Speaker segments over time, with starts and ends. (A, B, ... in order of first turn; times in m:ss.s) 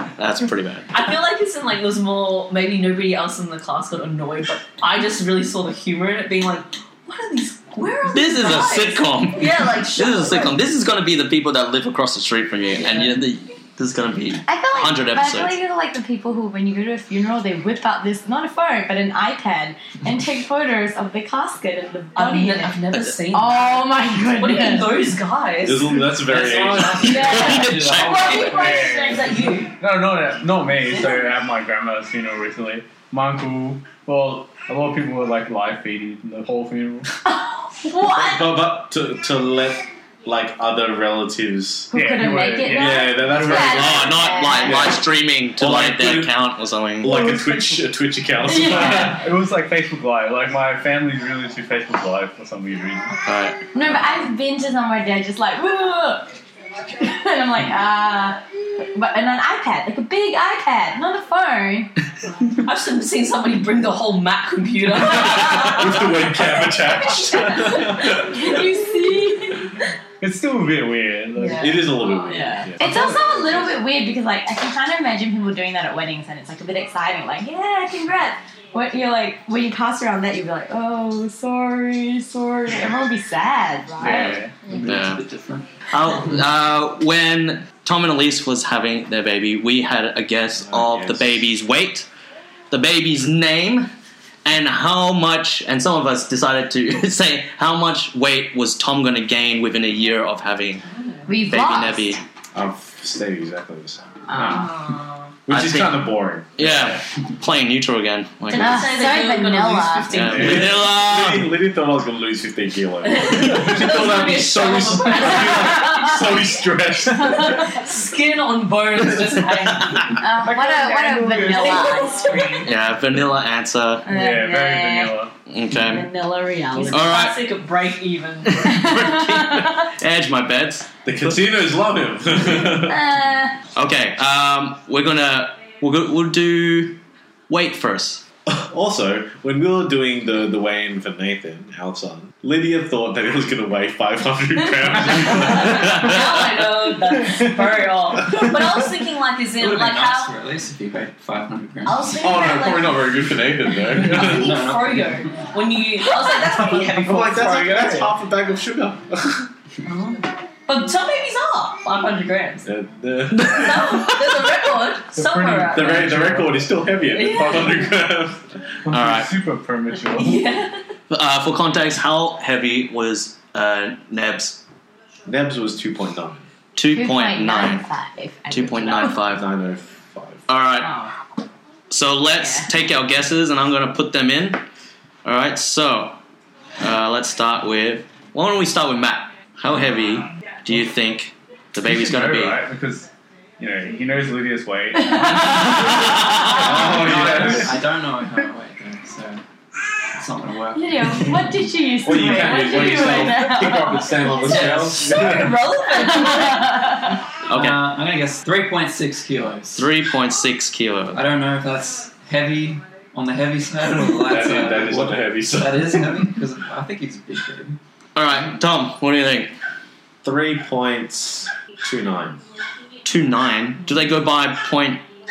0:00.2-0:00.9 A
0:00.9-0:10.6 B
0:08.1-0:15.6 A
0:12.8-0:13.1 B
0:14.5-0:22.8 C
0:22.2-0:26.3 B
0:23.3-0:25.0 C
0:25.6-0:27.2 D
0:26.3-0:28.8 E
0:26.7-0:28.5 A
0:27.0-0:29.3 C
0:28.3-0:29.7 B
0:28.3-0:37.1 F
0:37.3-0:38.6 C
0:38.0-0:41.9 D
0:41.9-0:44.9 C
0:41.9-0:43.9 F
0:42.7-0:45.0 D
0:43.6-0:47.2 A
0:45.6-0:46.4 D
0:47.0-0:49.2 D
0:48.5-0:49.1 C
0:48.6-0:53.2 F
0:53.3-0:53.6 A
0:53.7-0:56.3 C
0:56.9-1:01.9 C
1:02.5-1:08.2 B
1:05.2-1:08.6 D
1:07.8-1:09.8 C
1:10.2-1:12.0 F
1:11.4-1:12.4 B
1:11.6-1:13.7 D
1:12.3-1:24.4 C
1:12.8-1:13.5 F
1:24.0-1:24.6 F
1:24.6-1:25.7 E
1:24.8-1:25.2 A
1:25.9-1:32.1 A
1:30.6-1:31.5 D
1:32.7-1:33.9 A
1:34.4-1:40.8 A
1:41.3-1:42.2 C
1:41.4-1:42.2 A
1:42.5-1:44.6 D
1:44.3-1:44.7 C
1:44.4-1:45.4 B
1:45.5-1:47.0 D
1:45.5-1:48.9 A
1:48.5-1:50.8 B
1:48.6-1:50.1 C
1:50.1-1:51.5 A
1:50.3-1:57.7 D
1:53.0-1:56.4 B
1:57.4-2:00.2 B
2:00.1-2:02.7 C
2:00.3-2:02.2 F
2:01.5-2:02.7 B
2:02.6-2:04.1 A
2:04.1-2:05.3 F
2:04.1-2:05.2 C
2:05.5-2:06.1 A
2:05.8-2:07.1 C
2:06.8-2:08.8 B
2:06.9-2:07.4 A
2:08.4-2:11.4 A
2:08.7-2:09.8 C
2:11.0-2:13.0 D
2:12.7-2:13.6 C
2:13.8-2:18.2 A
2:18.5-2:26.2 D
2:25.2-2:30.3 B
2:25.6-2:26.2 A
2:29.6-2:32.3 E
2:31.9-2:33.2 B
2:32.2-2:34.6 D
2:33.9-2:37.6 B
2:33.9-2:35.4 E
2:36.6-2:39.5 D
2:36.9-2:38.1 F
2:39.8-2:42.7 B
2:42.7-2:44.1 D
2:43.4-2:44.2 A
2:43.4-2:46.2 B
2:45.1-2:46.8 F
2:45.7-2:48.4 D
2:47.1-2:47.9 B
2:48.9-2:50.5 F
2:48.9-2:49.3 A
2:50.1-2:50.8 B
2:51.1-2:54.6 A
2:55.3-2:56.4 D
2:56.8-2:57.9 A
2:56.9-2:59.2 C
2:58.5-2:59.5 A
2:59.0-3:00.5 D
3:00.5-3:00.9 A
3:00.8-3:01.2 C
3:01.9-3:04.6 A
3:02.4-3:02.7 C
3:05.2-3:06.2 A
3:06.8-3:12.6 A
3:11.8-3:17.7 F
3:15.0-3:16.1 C
3:15.7-3:16.9 A
3:16.6-3:17.8 D
3:16.7-3:19.4 E
3:20.1-3:21.7 E
3:20.7-3:24.2 C
3:22.0-3:25.6 D
3:24.3-3:25.4 E
3:24.5-3:26.9 B
3:26.0-3:27.1 C
3:27.5-3:29.9 E
3:27.5-3:27.9 A
3:29.8-3:31.2 A
3:31.1-3:37.8 E
3:34.1-3:36.0 D
3:38.2-3:39.5 A
3:40.2-3:42.4 D
3:43.0-3:45.0 A